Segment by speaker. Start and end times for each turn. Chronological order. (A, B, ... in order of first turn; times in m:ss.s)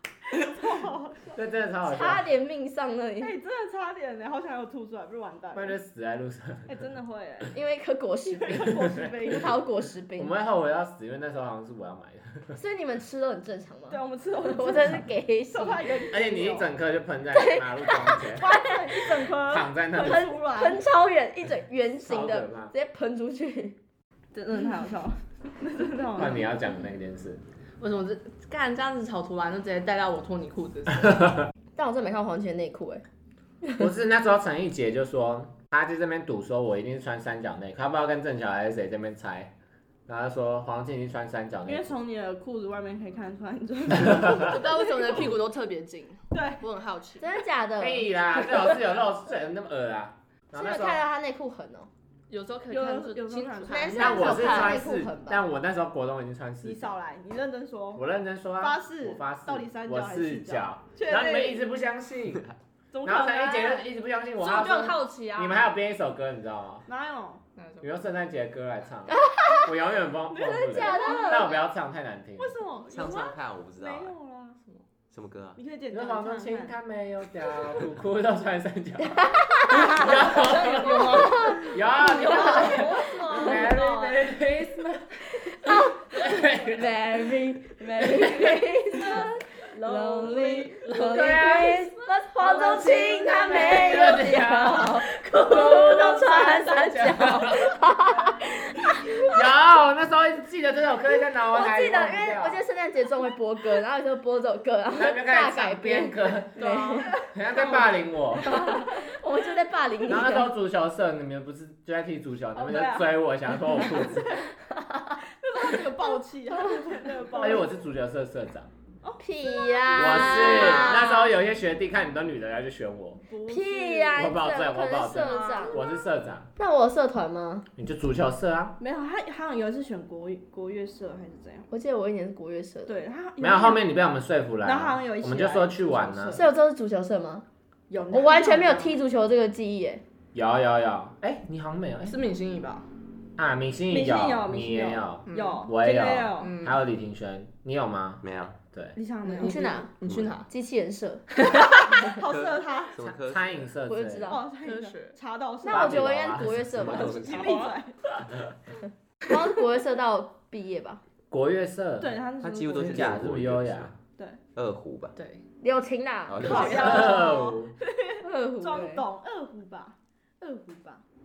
0:00.4-0:01.4 A
0:01.3-0:02.3 B
0:01.8-0:03.3 C
0:03.2-0:05.8 A
0:05.5-0:06.7 B
0:06.7-0:07.5 A
0:07.5-0:10.3 C
0:08.3-0:09.5 A
0:08.5-0:09.2 B
0:10.2-0:12.6 B
0:12.5-0:15.8 C
0:13.9-0:16.7 A
0:16.1-0:18.5 B
0:17.3-0:18.6 C
0:18.4-0:20.8 A
0:19.5-0:20.2 B
0:20.0-0:23.8 C
0:22.0-0:22.7 B
0:24.3-0:26.5 A
0:26.2-0:27.4 B
0:27.8-0:31.3 D
0:31.8-0:33.0 C
0:33.8-0:39.5 B
0:40.1-0:41.9 B
0:41.6-0:45.3 A
0:44.4-0:47.3 D
0:46.3-0:46.6 A
0:47.2-0:48.8 C
0:47.8-0:51.0 B
0:50.5-0:51.9 C
0:52.3-0:54.8 D
0:52.7-0:54.4 A
0:53.7-0:55.4 C
0:53.9-0:56.9 B
0:56.6-0:58.0 A
0:57.9-1:02.5 B
0:58.6-1:01.6 A
1:02.9-1:03.9 A
1:03.0-1:06.9 B
1:04.4-1:05.7 D
1:06.9-1:07.4 A
1:07.6-1:07.9 D
1:07.8-1:12.5 B
1:09.1-1:09.7 C
1:10.3-1:11.4 A
1:10.6-1:11.6 C
1:12.4-1:14.6 A
1:12.9-1:14.2 E
1:15.1-1:15.6 E
1:15.6-1:16.7 A
1:15.9-1:26.9 B
1:19.1-1:20.4 C
1:19.8-1:24.2 D
1:21.0-1:23.6 C
1:25.5-1:39.3 C
1:28.0-1:28.4 B
1:29.0-1:32.6 D
1:30.9-1:31.8 B
1:32.6-1:37.7 B
1:33.4-1:33.9 D
1:39.2-1:42.6 B
1:41.5-1:47.2 C
1:45.0-1:48.6 B
1:46.6-1:47.2 D
1:47.6-1:47.8 A
1:48.4-1:50.5 C
1:50.1-1:54.4 B
1:52.5-1:53.1 A
1:53.7-1:54.4 A
1:54.8-1:55.2 C
1:55.4-1:57.7 A
1:57.4-1:58.7 B
1:59.0-2:01.0 A
1:59.2-2:01.3 C
2:00.0-2:03.2 B
2:03.3-2:04.3 A
2:03.5-2:05.8 C
2:04.2-2:06.5 B
2:05.1-2:05.9 A
2:06.6-2:07.7 C
2:07.8-2:08.8 B
2:08.8-2:11.7 A
2:11.7-2:13.0 C
2:12.9-2:13.8 A
2:13.4-2:16.4 B
2:14.6-2:16.4 A
2:16.3-2:17.4 C
2:17.9-2:19.0 A
2:18.1-2:20.0 C
2:20.3-2:22.2 B
2:22.0-2:22.9 D
2:23.4-2:29.0 B
2:23.9-2:26.6 A
2:25.2-2:25.6 D
2:26.4-2:26.8 D
2:28.2-2:28.6 E
2:29.0-2:29.9 A
2:29.2-2:30.5 D
2:29.4-2:31.2 C
2:30.0-2:30.4 E
2:31.4-2:32.0 D
2:31.8-2:33.0 A
2:32.2-2:33.7 E
2:33.0-2:34.4 B
2:33.8-2:34.4 C
2:34.2-2:36.0 A
2:34.6-2:35.2 D
2:35.6-2:37.5 C
2:35.6-2:36.7 B
2:36.7-2:37.2 E
2:36.8-2:38.1 A
2:36.9-2:37.7 D
2:39.3-2:41.0 C
2:41.3-2:42.2 B
2:42.0-2:43.1 A
2:42.4-2:43.9 E
2:42.8-2:44.0 B
2:44.5-2:45.2 E
2:45.2-2:45.4 D
2:45.6-2:47.3 C
2:46.3-2:46.8 E
2:46.4-2:51.0 A
2:46.4-2:47.7 B
2:46.5-2:47.3 D
2:48.2-2:49.0 C